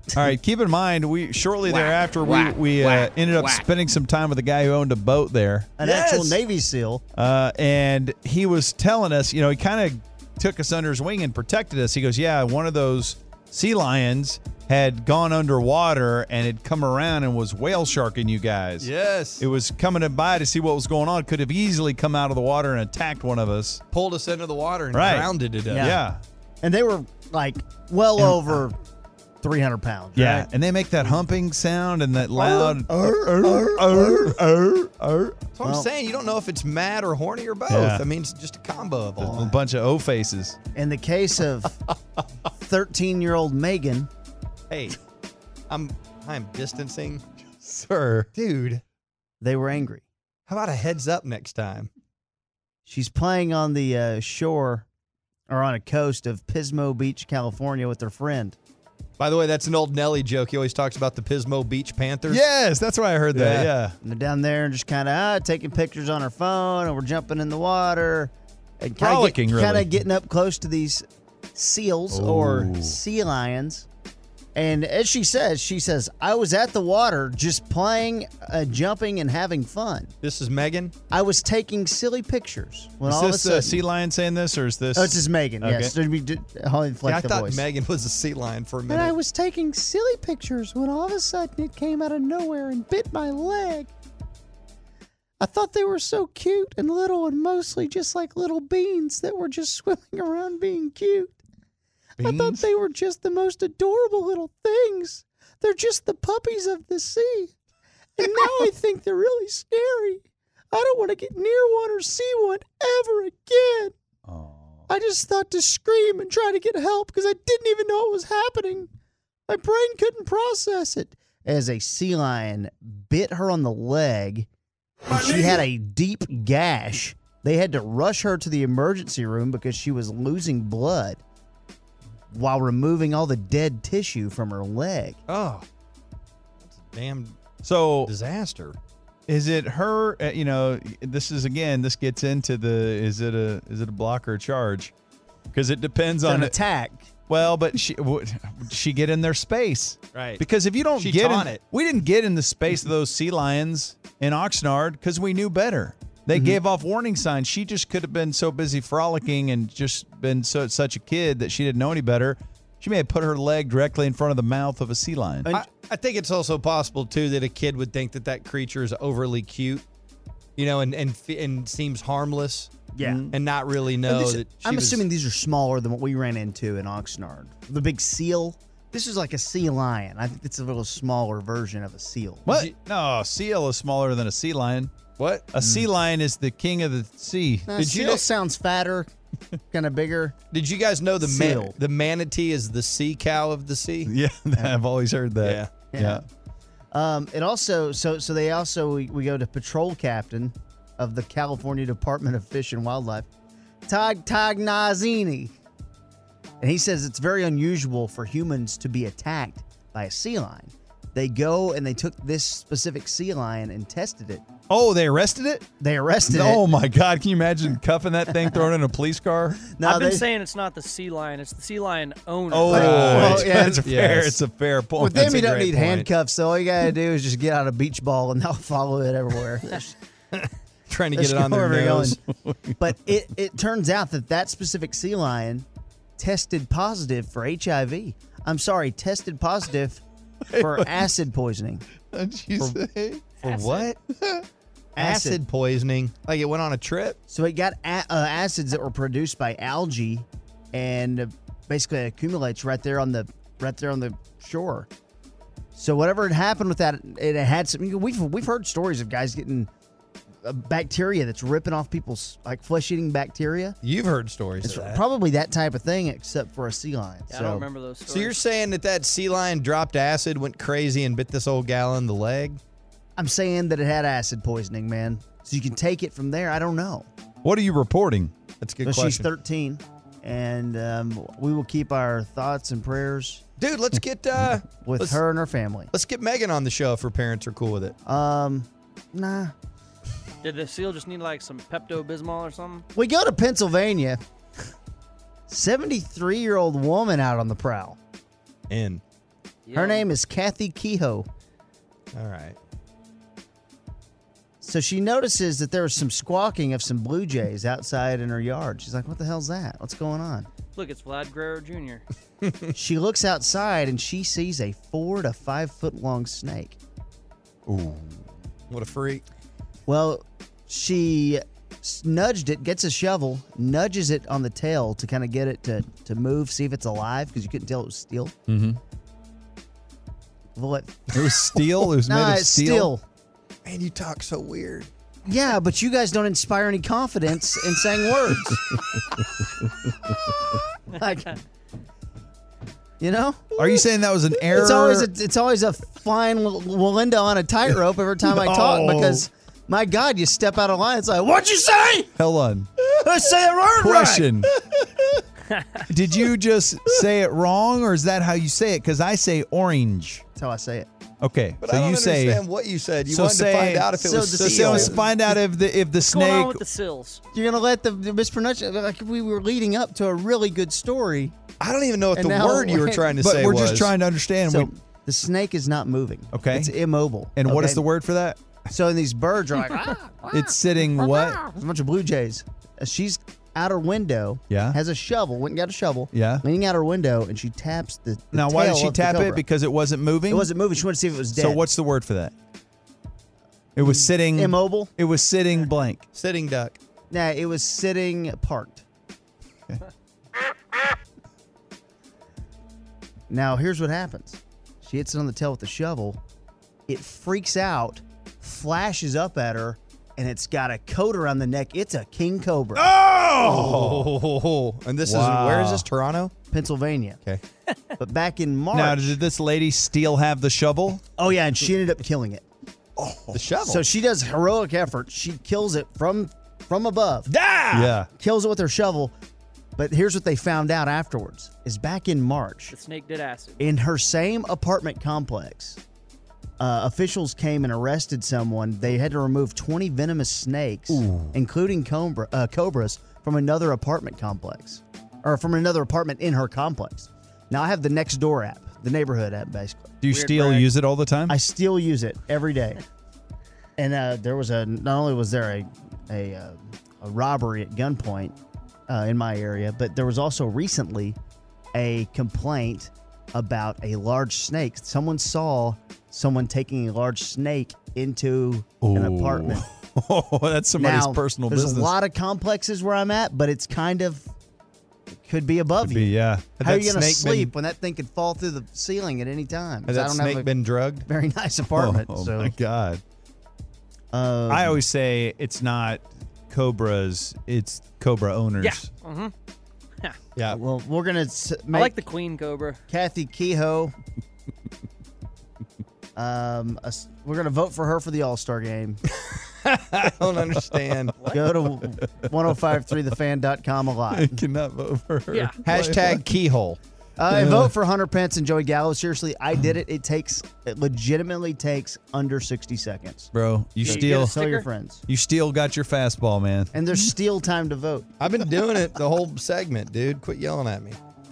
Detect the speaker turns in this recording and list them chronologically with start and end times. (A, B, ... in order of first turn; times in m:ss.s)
0:00.2-0:05.8 A
0:02.9-0:03.5 B
0:05.8-0:07.0 C
0:05.8-0:06.3 B
0:07.2-0:23.8 A
0:18.8-0:19.4 B
0:23.9-0:26.0 B
0:24.9-0:26.2 A
0:25.7-0:26.0 C
0:26.6-0:28.8 C
0:28.2-0:28.6 A
0:29.4-0:30.5 C
0:30.2-0:35.4 A
0:32.3-0:34.4 C
0:35.6-0:39.5 B
0:35.6-0:35.9 C
0:37.7-0:38.0 A
0:39.2-0:39.6 C
0:39.2-0:40.6 A
0:40.7-0:41.8 C
0:42.6-0:44.1 C
0:44.7-0:45.0 B
0:45.7-0:48.8 B
0:49.4-0:50.0 C
0:50.5-0:51.9 B
0:52.8-0:54.8 C
0:55.5-0:58.6 C
0:59.2-1:02.4 B
1:02.3-1:04.0 A
1:03.3-1:03.7 B
1:04.0-1:13.9 C
1:09.0-1:09.9 A
1:12.1-1:13.0 A
1:14.5-1:20.1 C
1:20.2-1:20.9 B
1:21.1-1:23.8 C
1:23.0-1:25.9 A
1:24.9-1:27.6 C
1:27.0-1:29.1 B
1:28.9-1:33.9 C
1:35.4-1:41.4 C
1:42.2-1:42.6 B
1:42.2-1:47.5 C
1:48.2-1:53.9 C
1:54.2-1:54.7 A
1:54.9-1:58.9 C
1:59.5-2:04.5 C
2:05.1-2:11.2 C
2:12.3-2:15.2 C
2:15.3-2:15.6 B
2:16.7-2:17.4 B
2:17.6-2:18.1 A
2:18.0-2:18.8 B
2:19.3-2:24.9 A
2:25.5-2:26.5 A
2:26.2-2:27.1 C
2:27.3-2:45.5 A
2:30.1-2:30.4 B
2:31.0-2:31.6 B
2:36.3-2:36.6 C
2:45.5-2:49.8 B
2:50.6-2:52.7 B
2:52.9-2:53.3 C
2:53.0-2:53.3 A
2:53.3-2:55.0 B
2:54.0-3:02.5 C
3:02.4-3:04.9 A
3:02.5-3:02.7 B
3:05.2-3:05.5 B
3:05.5-3:07.7 A
3:07.7-3:09.1 C
3:07.8-3:08.2 B
3:09.7-3:10.4 C
3:10.5-3:14.1 B
3:11.2-3:11.8 C
3:14.0-3:16.2 A
3:15.4-3:15.7 B
3:15.9-3:16.2 C
3:16.9-3:23.3 C
3:23.8-3:25.5 C
3:26.6-3:34.4 C
3:34.7-3:35.6 A
3:35.8-3:36.6 C
3:36.3-3:39.6 A
3:39.7-3:40.3 C
3:39.8-3:43.4 D
3:42.5-3:45.4 A
3:42.7-3:43.9 C
3:42.7-3:44.4 B
3:45.0-3:49.9 C
3:45.1-3:46.1 B
3:50.3-3:52.2 B
3:51.1-3:52.2 C
3:52.4-3:52.8 A
3:52.8-3:55.6 C
3:56.2-4:00.0 C
4:00.5-4:01.0 A
4:00.5-4:01.8 C
4:02.1-4:03.2 A
4:03.4-4:03.9 D
4:03.4-4:04.0 B
4:05.0-4:05.4 C
4:05.0-4:07.2 B
4:07.3-4:14.9 C
4:15.7-4:19.7 C
4:20.4-4:23.8 C
4:23.8-4:25.0 B
4:24.6-4:27.6 C
4:27.3-4:28.4 D
4:28.1-4:32.6 B
4:33.2-4:37.1 C
4:37.4-4:38.3 A
4:38.6-4:39.3 B
4:38.8-4:43.4 C
4:43.6-4:45.2 B
4:44.8-4:45.9 C
4:45.9-4:47.9 B
4:48.0-4:49.5 C
4:50.4-4:52.8 D
4:52.9-4:54.2 C
4:55.5-4:58.0 C
4:58.7-4:59.0 B
4:59.6-5:00.1 D
4:59.7-5:01.3 C
5:02.1-5:02.6 B
5:04.6-5:10.5 C
5:10.7-5:12.0 D
5:12.7-5:16.8 C
5:17.7-5:18.0 A
5:18.7-5:19.2 B
5:19.8-5:28.3 C
5:28.5-5:28.8 A
5:30.6-5:31.1 C
5:31.1-5:32.9 A
5:31.9-5:33.0 C
5:33.6-5:34.9 B
5:35.2-5:38.6 C
5:40.9-5:41.4 C
5:43.0-5:43.7 C
5:43.6-5:45.1 A
5:44.5-5:52.1 C
5:48.3-5:49.3 A
5:52.2-5:52.7 A
5:53.0-5:54.3 C
5:53.8-5:54.5 A
5:55.9-6:00.2 A
6:00.3-6:00.9 C
6:01.2-6:02.4 A
6:01.6-6:05.1 B
6:03.1-6:06.6 A
6:04.0-6:05.0 C
6:06.0-6:07.2 D
6:07.3-6:11.4 C
6:11.6-6:13.9 B
6:12.2-6:13.1 C
6:13.2-6:14.7 A
6:14.4-6:17.8 C
6:16.3-6:16.7 A
6:17.3-6:18.4 A
6:18.7-6:20.4 C
6:20.3-6:21.4 A
6:21.4-6:29.4 C
6:24.5-6:24.8 A
6:26.1-6:26.4 A
6:28.3-6:30.5 A
6:30.3-6:31.7 C
6:31.3-6:32.3 A
6:33.8-6:36.0 A
6:33.8-6:34.9 C
6:36.1-6:36.8 B
6:37.1-6:38.8 C
6:43.3-6:46.2 C
6:46.9-6:52.9 C
6:52.7-6:54.1 A
6:53.4-6:56.3 B
6:55.0-6:55.9 A
6:56.5-6:57.2 C
6:58.0-6:59.2 C
6:58.7-7:01.0 A
7:01.2-7:02.4 C
7:03.0-7:03.4 A
7:03.3-7:03.8 B
7:03.6-7:07.3 C
7:07.3-7:07.9 B
7:07.7-7:08.1 A
7:08.1-7:09.1 C
7:09.8-7:12.7 C
7:12.7-7:13.6 D
7:13.6-7:15.8 C
7:16.6-7:30.6 C
7:20.9-7:21.4 A
7:30.0-7:31.4 A
7:30.1-7:30.5 D
7:31.3-7:32.8 C
7:33.8-7:38.3 C
7:38.9-7:41.2 C
7:41.7-7:49.6 C
7:48.8-7:51.9 A
7:50.8-7:54.3 C
7:55.1-8:00.5 C
7:55.8-7:56.6 A
7:56.6-7:57.5 B
7:59.9-8:01.0 B
8:01.0-8:02.6 C
8:01.7-8:03.0 A
8:04.1-8:04.8 C
8:04.5-8:08.9 A
8:08.6-8:09.3 D
8:10.5-8:12.0 C
8:11.7-8:12.8 D
8:12.9-8:13.9 C
8:16.2-8:19.0 C
8:19.2-8:21.2 B
8:21.2-8:21.5 D
8:21.3-8:24.4 C
8:24.1-8:26.2 A
8:25.3-8:25.6 D
8:25.6-8:26.8 B
8:27.2-8:33.3 C
8:27.3-8:27.7 A
8:33.3-8:34.4 A
8:33.8-8:34.6 D
8:33.8-8:35.0 C
8:35.1-8:36.7 A
8:36.7-8:38.1 C
8:38.2-8:41.0 B